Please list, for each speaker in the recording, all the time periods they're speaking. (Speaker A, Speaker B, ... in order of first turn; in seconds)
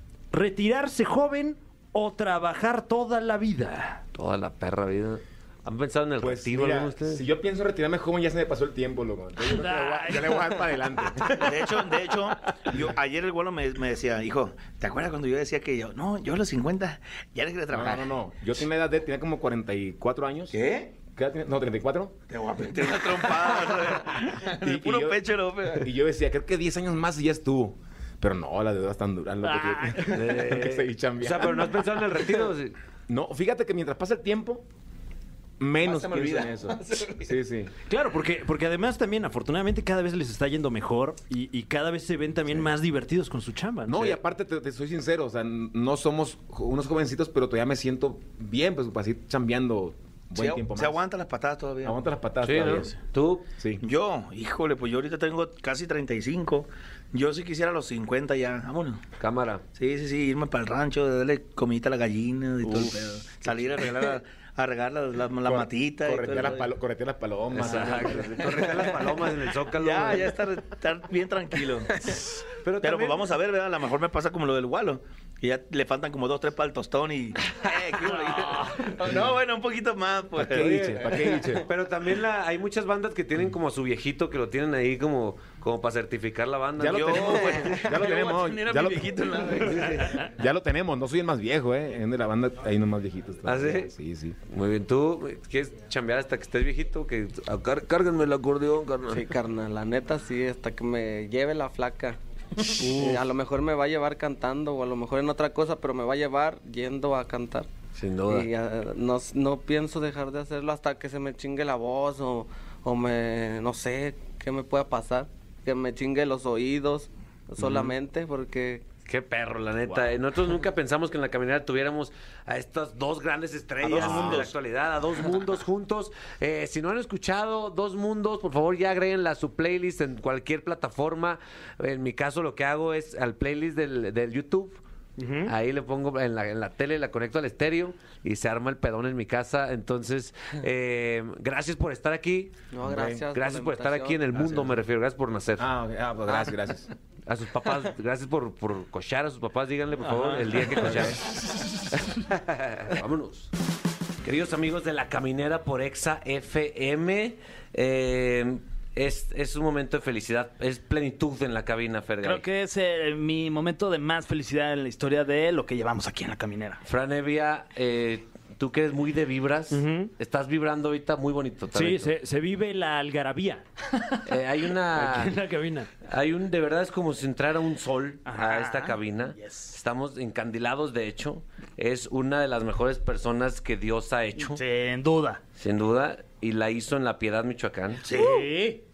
Speaker A: 0.3-4.0, 37.9-44.2, 102.8-103.1, 119.9-120.2, 135.2-135.5, 169.7-170.1, 171.7-173.7, 174.9-175.9
Speaker B: 4.2-7.2, 30.1-32.8, 52.4-53.5, 59.2-59.6, 67.5-70.4, 72.6-73.3, 80.5-87.9, 89.6-90.2, 93.5-93.9, 94.5-99.2, 108.0-108.5, 117.6-118.0, 119.1-134.8, 135.4-142.5, 143.2-145.7, 147.3-151.4, 151.9-153.5, 154.2-162.4, 166.8-172.1, 174.3-175.3, 176.0-184.6, 185.6-188.1
Speaker C: 6.2-12.8, 17.7-22.2, 24.5-31.9, 33.1-34.6, 35.6-37.7, 43.9-51.0, 51.8-52.9, 53.6-53.8, 65.5-68.9, 80.4-81.7, 86.8-94.4, 142.8-143.2, 145.6-146.9, 150.8-151.2
Speaker D: 9.9-10.4, 162.2-166.8, 178.3-179.8, 184.4-185.4, 188.0-188.8
Speaker E: 11.3-18.1, 20.5-20.9, 22.3-25.9, 35.8-37.3, 50.4-52.0, 53.8-59.0, 59.8-66.7, 69.7-80.8, 86.8-90.2, 123.8-124.6
Speaker F: 99.1-107.7, 108.3-118.8, 142.7-144.6